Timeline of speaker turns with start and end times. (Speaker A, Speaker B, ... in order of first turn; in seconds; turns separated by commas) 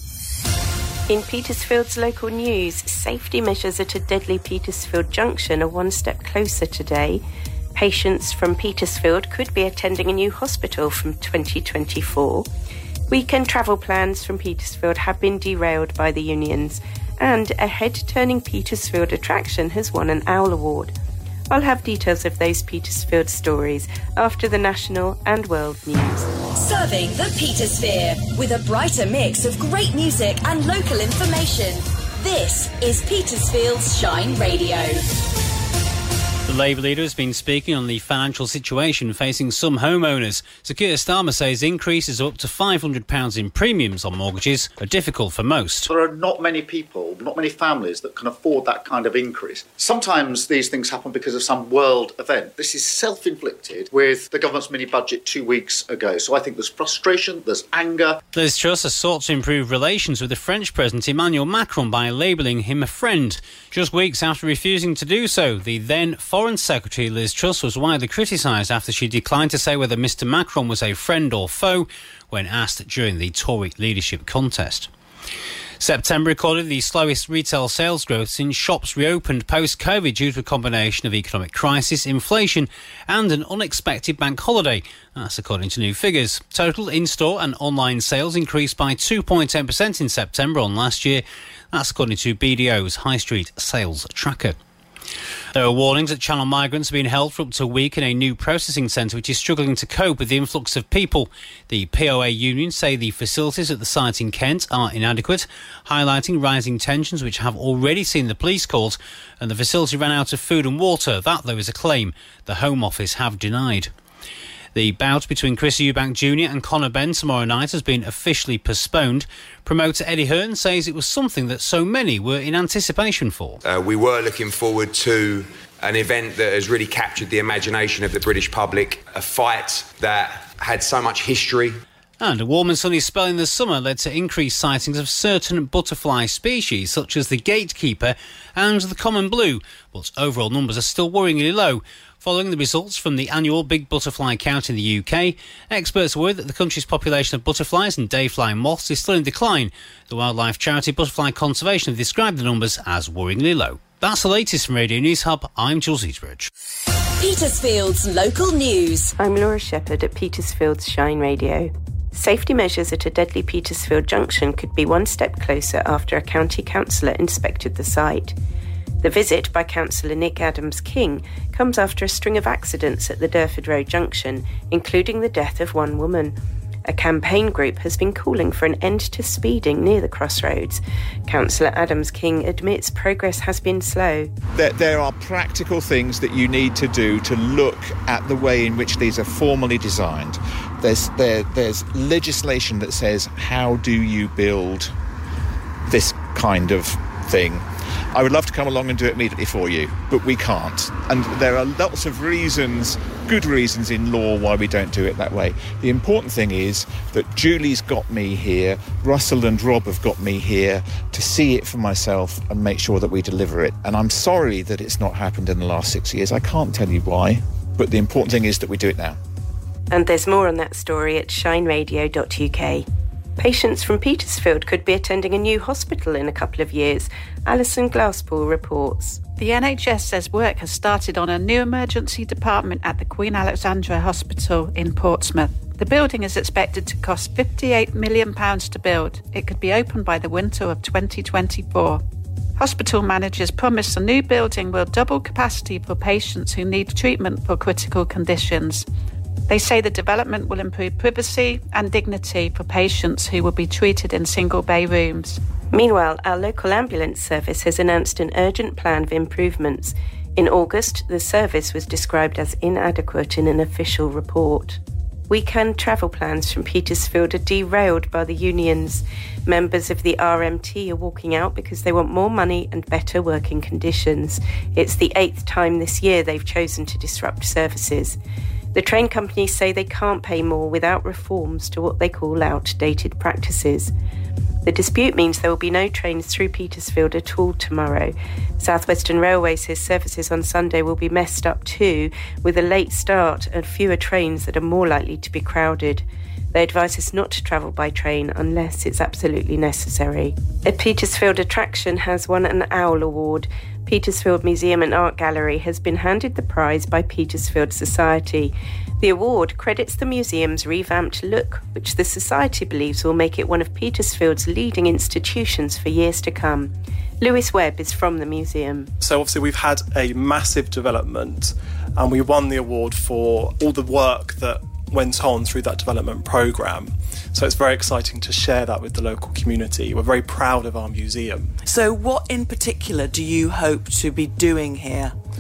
Speaker A: 1.1-7.2, Speaker A: 7.7-12.5, Speaker A: 13.1-20.9, Speaker A: 21.5-26.3, Speaker B: 26.6-35.0, Speaker C: 36.5-45.8, Speaker D: 45.9-58.2, Speaker C: 58.4-74.9, Speaker C: 75.8-94.5, Speaker C: 95.5-113.9, Speaker C: 114.8-123.5, Speaker E: 123.6-131.8, Speaker C: 132.2-156.5, Speaker B: 157.2-159.1, Speaker A: 159.2-168.3, Speaker A: 169.0-176.3, Speaker A: 176.9-184.3, Speaker F: 184.6-194.9, Speaker F: 195.9-219.2, Speaker A: 219.9-222.8, Speaker A: 223.4-229.2, Speaker G: 229.6-242.0, Speaker G: 242.6-248.8, Speaker G: 249.5-255.4, Speaker A: 255.7-278.2, Speaker A: 278.7-283.9, Speaker A: 284.6-318.9, Speaker H: 319.0-331.5, Speaker I: 331.6-335.1